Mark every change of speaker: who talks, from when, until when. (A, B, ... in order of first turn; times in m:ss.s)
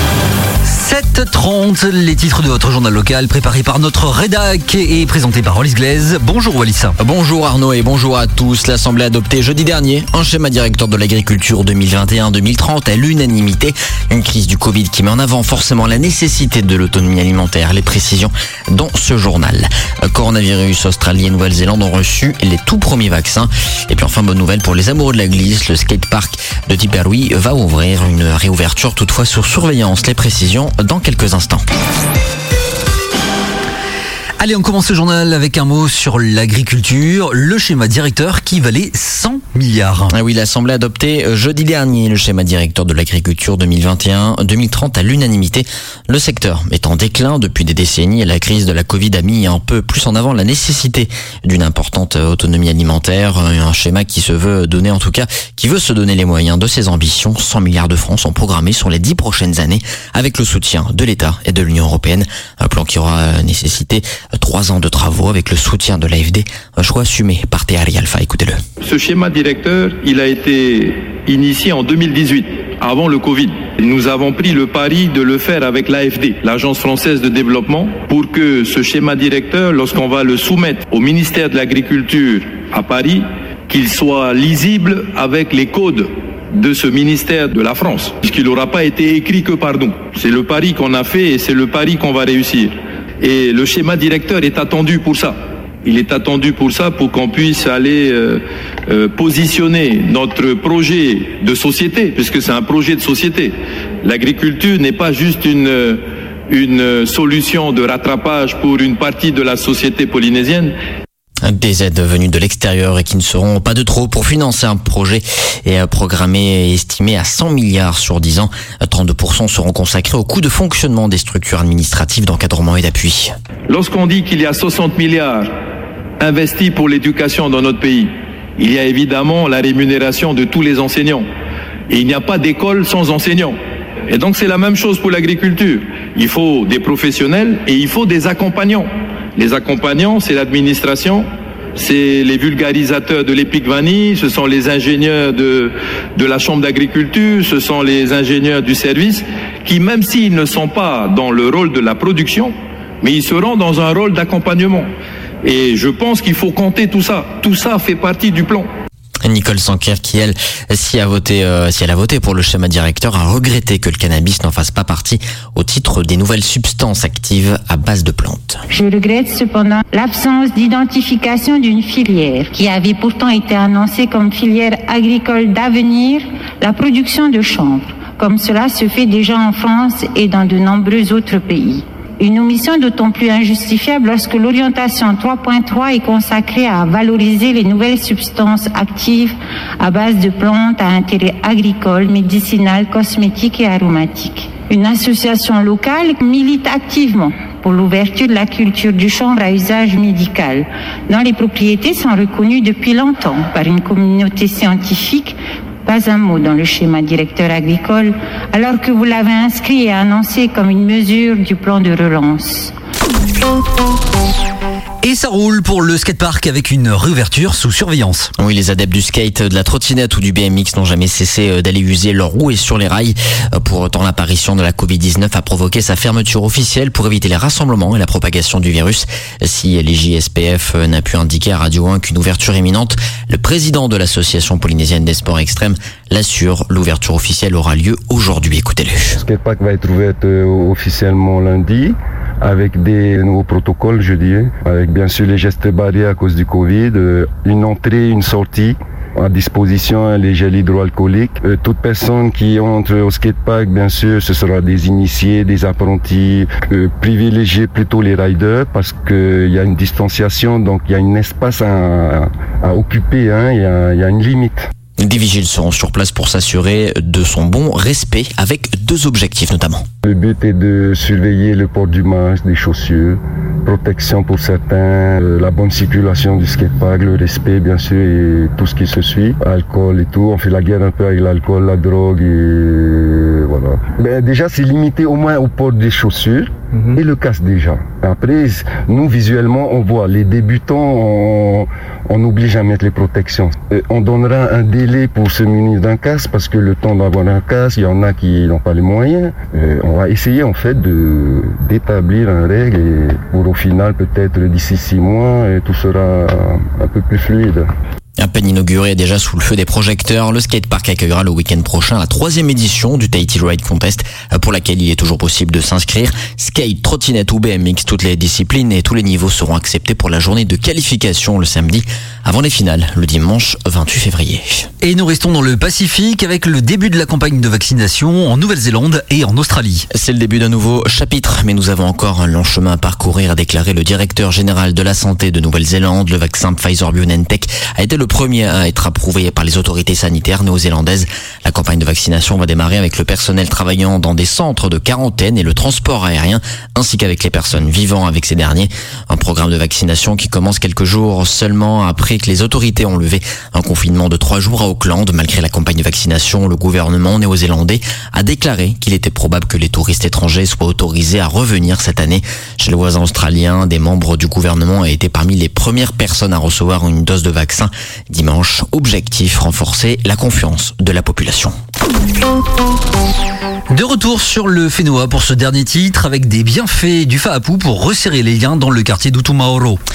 0:00.6-0:07.0 A
0:07.0-0:31.6 B
0:34.4-0:40.1 A
0:40.1-1:08.6 B
1:08.8-1:50.7 C
1:51.4-2:03.3 B
2:03.7-2:05.5 C
2:06.2-2:11.2 C
2:11.9-2:13.6 C
2:14.1-2:34.9 C
2:35.4-2:38.7 C
2:39.2-2:48.6 B
2:48.7-3:32.7 D
3:35.0-3:38.3 A
3:38.4-3:59.2 B
3:59.2-4:24.7 E
4:25.0-4:29.8 B
4:30.0-5:07.7 E
5:08.2-5:24.7 B
5:24.8-5:29.9 A
5:29.9-6:11.5 B
6:13.7-6:19.8 A